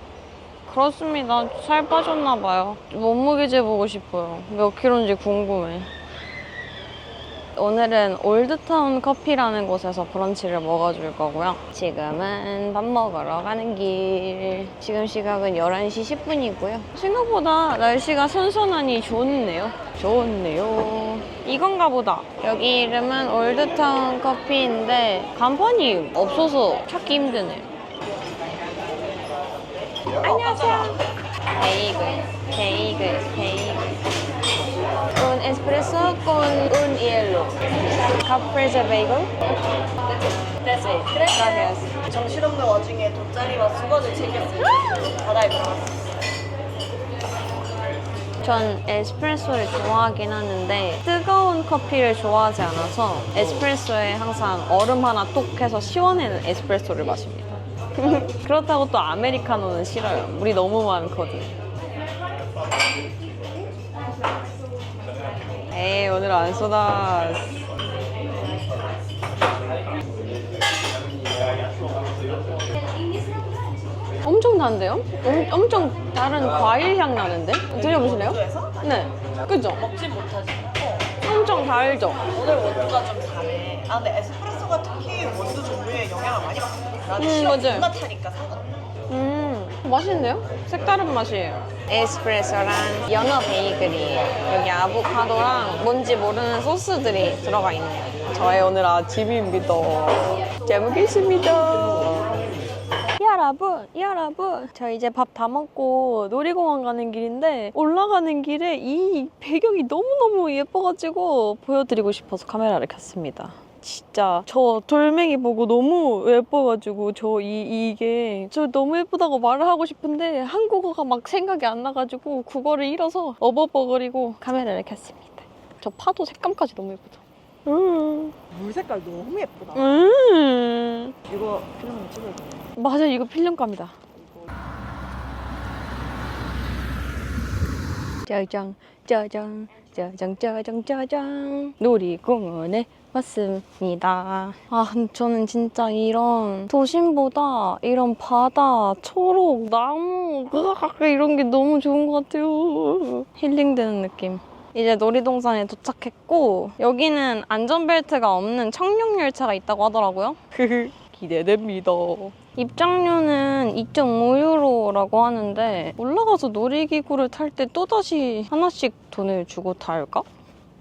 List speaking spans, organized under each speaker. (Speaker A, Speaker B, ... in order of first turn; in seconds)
Speaker A: 0.7-5.9, 7.5-27.7, 30.1-31.0, 31.6-33.9, 35.1-37.6, 38.2-39.4, 40.6-41.9, 48.4-61.5, 65.7-67.5, 74.2-79.8, 81.2-82.2, 87.2-87.9, 89.1-102.2, 103.2-128.3, 129.7-131.1, 132.8-133.9, 138.2-170.2
Speaker B: 42.1-46.0, 77.8-78.7, 80.0-80.3, 82.3-88.7, 128.5-129.8, 131.3-132.7